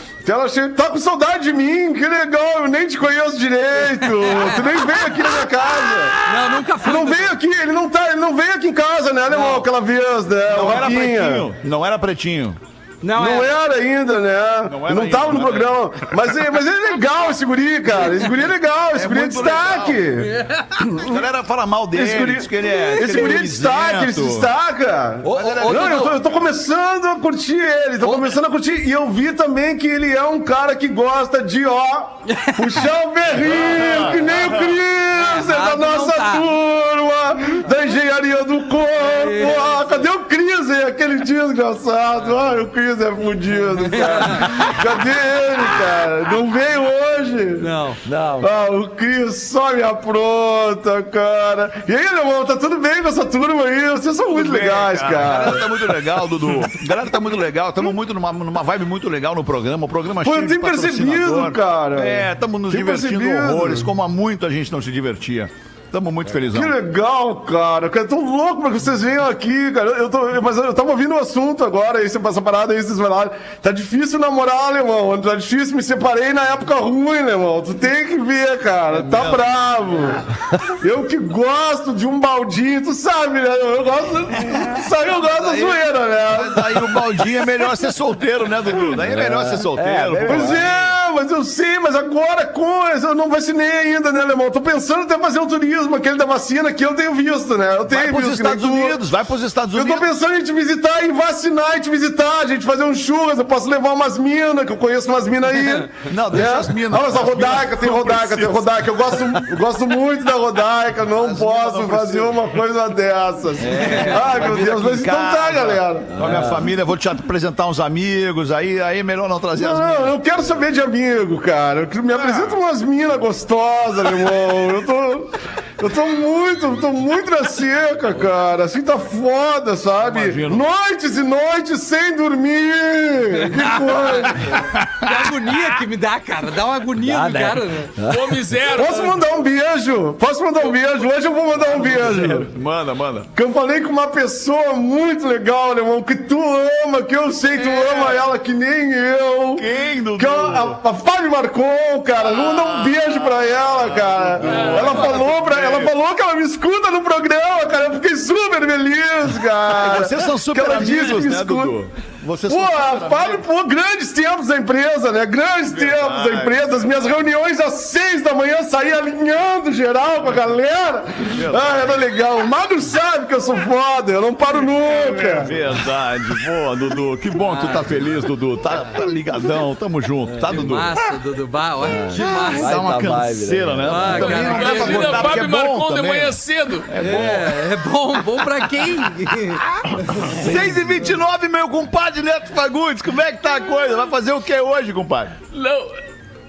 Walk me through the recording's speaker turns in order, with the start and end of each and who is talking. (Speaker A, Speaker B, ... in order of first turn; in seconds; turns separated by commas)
Speaker A: 0.2-11.5, Speaker B: 4.2-4.7, Speaker B: 6.2-7.3, Speaker B: 9.3-9.7, Speaker C: 10.5-12.6, Speaker B: 13.0-13.5, Speaker A: 13.1-21.2, Speaker C: 14.6-16.1, Speaker C: 18.9-20.1, Speaker B: 20.2-20.6, Speaker C: 21.0-24.5, Speaker A: 21.9-47.7, Speaker B: 22.9-23.3, Speaker D: 25.2-26.1, Speaker C: 25.3-26.2, Speaker D: 28.0-28.4, Speaker B: 32.3-32.6, Speaker C: 33.4-34.8, Speaker B: 35.1-36.5, Speaker B: 39.0-39.7, Speaker B: 44.0-44.5, Speaker B: 47.6-48.0, Speaker D: 48.0-48.5, Speaker A: 48.4-55.9, Speaker C: 54.3-66.8, Speaker A: 60.2-63.9, Speaker A: 66.5-80.2, Speaker C: 78.9-79.5, Speaker A: 80.8-87.5, Speaker C: 85.2-90.9, Speaker D: 89.2-90.7, Speaker A: 90.2-99.0, Speaker C: 97.9-100.1, Speaker A: 99.7-116.4, Speaker C: 106.0-109.4, Speaker C: 111.1-112.5, Speaker C: 113.6-120.2, Speaker D: 116.2-116.6, Speaker A: 119.6-134.6, Speaker C: 130.1-130.6, Speaker C: 134.7-135.2, Speaker B: 135.0-137.9, Speaker D: 137.0-138.3, Speaker E: 138.1-139.1, Speaker A: 138.7-142.5, Speaker C: 141.7-143.3, Speaker A: 143.3-161.7, Speaker C: 149.5-150.8, Speaker C: 152.2-155.9, Speaker E: 154.5-154.9, Speaker C: 159.7-163.4, Speaker A: 162.5-175.5, Speaker C: 165.7-167.1, Speaker C: 171.3-172.0, Speaker C: 174.8-181.1, Speaker B: 177.4-177.9, Speaker B: 180.4-182.8, Speaker D: 181.8-184.4, Speaker C: 182.1-187.8, Speaker B: 183.8-185.3, Speaker E: 184.4-186.9, Speaker B: 186.9-190.2, Speaker C: 190.1-195.3, Speaker D: 190.4-190.7, Speaker E: 195.5-196.0